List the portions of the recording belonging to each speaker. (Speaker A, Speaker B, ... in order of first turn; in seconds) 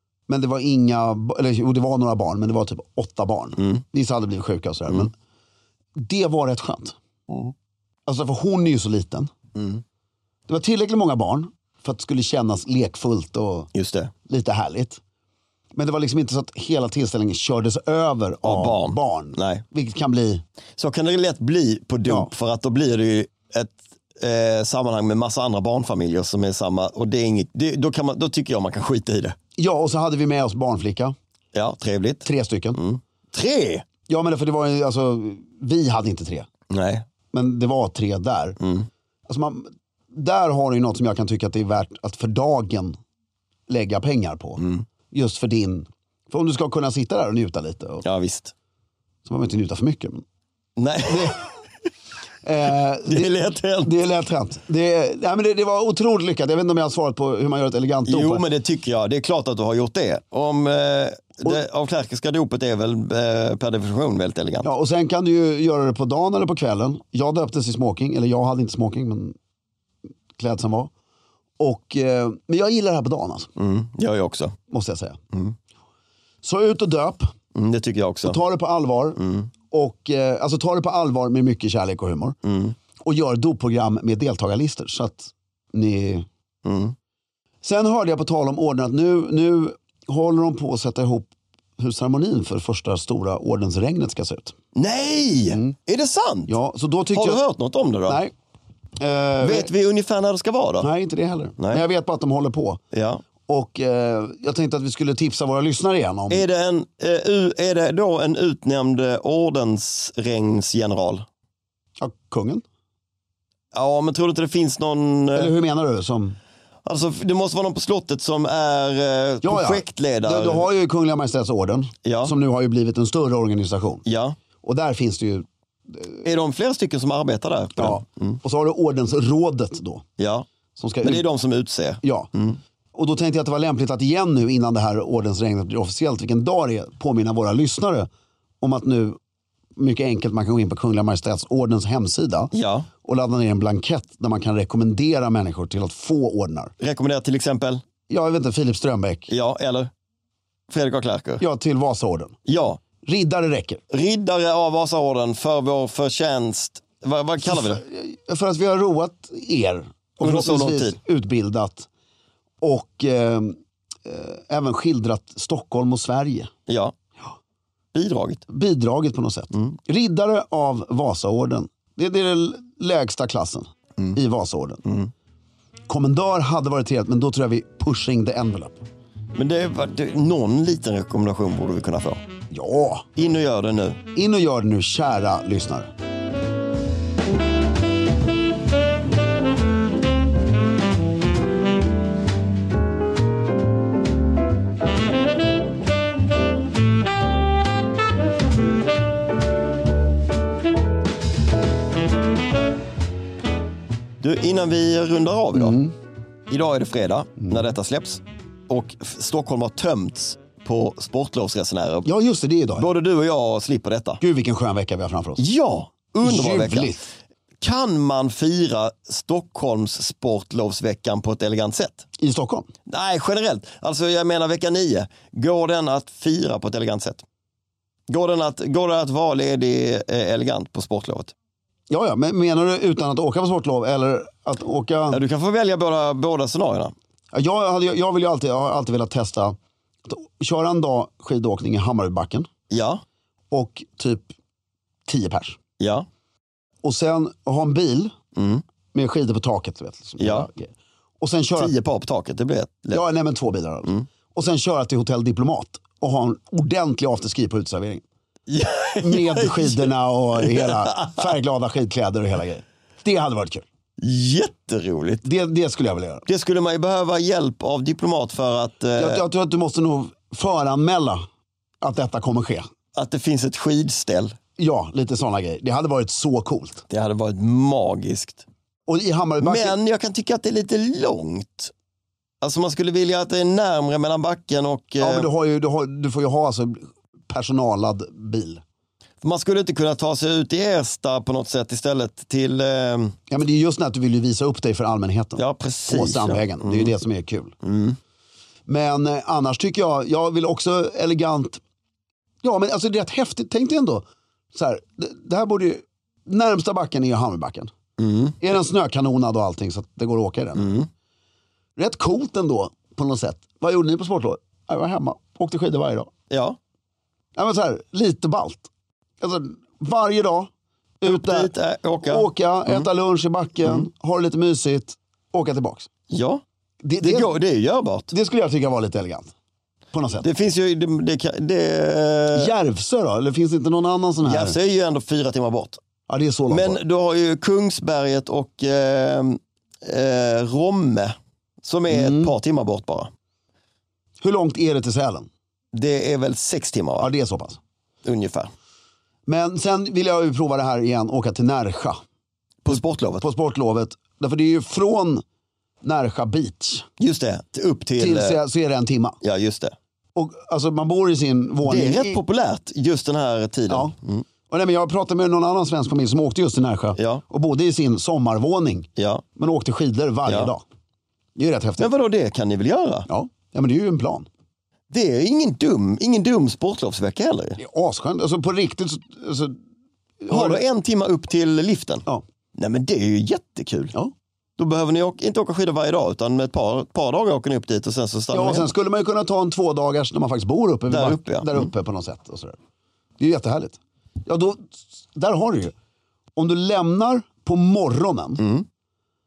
Speaker A: 0.3-5.1, 6.0-7.0, 8.1-9.3, 10.5-13.7, 14.3-15.0, 15.8-20.4, 29.6-31.1, 32.2-32.8, 34.1-36.5, 37.3-38.6, 39.3-43.0, 43.7-48.0, 49.2-50.2, 51.0-51.4, 52.4-58.5, 64.6-69.4, 70.4-70.9, 71.6-73.5, 74.7-75.2, 76.4-77.3, 78.2-82.4, 83.0-86.3, 87.6-94.6, 96.5-97.4, 98.1-98.3, 99.0-99.7, 100.8-102.8, 103.5-106.5, 112.0-112.6, 115.3-116.4, 119.4-124.0, 124.6-126.2, 127.8-130.1, 130.8-131.3, 132.0-132.3, 132.9-138.1, 138.6-139.2, 139.8-146.7, 148.1-149.3, 151.4-152.4, 153.0-153.8, 157.4-161.9, 162.6-166.5, 168.5-174.9, 175.9-178.8, 182.5-183.1, 184.1-185.9, 205.5-205.9, 212.1-212.9, 214.2-215.5, 216.2-217.1, 222.2-222.7, 231.9-235.2, 237.3-242.5, 243.5-244.3, 245.1-245.6, 246.8-248.2, 248.9-251.7, 252.9-258.0, 259.0-263.6, 265.2-266.3, 269.0-271.2, 271.8-272.6, 274.6-276.9, 278.9-279.8, 285.0-288.6, 293.3-297.6, 298.7-301.6, 302.4-307.7, 308.4-310.8, 311.8-316.1, 317.4-325.9, 326.8-327.4, 328.1-329.3, 329.9-330.3, 332.3-334.6, 336.1-336.8, 341.9-342.3, 344.2-345.3, 347.0-347.6, 349.3-352.0, 352.7-355.2, 355.8-356.9, 358.0-359.2, 360.1-362.2, 363.7-363.9, 364.5-370.6, 371.4-371.9, 373.1-374.3, 377.6-379.6, 380.2-380.6, 388.3-392.6, 393.2-395.7, 396.4-398.4
Speaker B: 9.6-9.8, 13.7-14.1, 18.4-19.6, 20.8-29.4, 31.5-33.9, 36.7-37.0, 38.6-38.9, 44.6-44.9, 48.0-48.5, 50.8-51.6, 53.0-53.9, 58.1-64.7, 73.6-74.6, 77.5-78.4, 79.2-79.5, 82.4-82.8, 86.7-87.0, 94.7-96.6, 97.1-98.2, 99.4-100.9, 101.6-101.8, 102.9-103.2, 106.3-111.3, 113.7-115.5, 116.8-120.7, 122.0-122.3, 124.0-124.4, 126.2-128.4, 130.2-130.5, 131.0-132.6, 142.5-142.9, 146.8-147.8, 149.3-149.9, 150.7-151.4, 152.5-152.8, 153.9-157.8, 160.2-161.0, 166.7-166.9, 167.9-168.4, 174.8-175.1, 179.3-182.2, 183.2-184.0, 204.2-205.8, 206.5-212.1, 212.8-214.2, 215.4-217.0, 217.6-222.1, 222.9-227.2, 228.1-231.3, 235.1-236.9, 242.7-243.0, 245.8-246.1, 248.3-248.6, 250.2-250.5, 251.6-253.0, 258.5-261.3, 264.0-265.3, 266.3-269.2, 272.9-274.4, 276.9-278.4, 279.4-281.7, 282.4-285.3, 289.2-293.2, 295.4-296.9, 297.6-298.0, 308.0-308.4, 310.6-310.9, 316.3-316.6, 321.0-322.9, 326.1-326.4, 327.0-328.1, 330.2-332.6, 334.2-335.8, 336.5-343.1, 345.7-347.1, 348.0-348.5, 352.6-353.2, 357.0-358.4, 359.2-359.8, 361.6-364.2, 367.0-367.2, 369.0-369.2, 370.3-370.5, 371.8-373.1, 374.9-377.6, 380.3-383.9, 384.6-388.7, 390.9-391.7, 398.4-398.7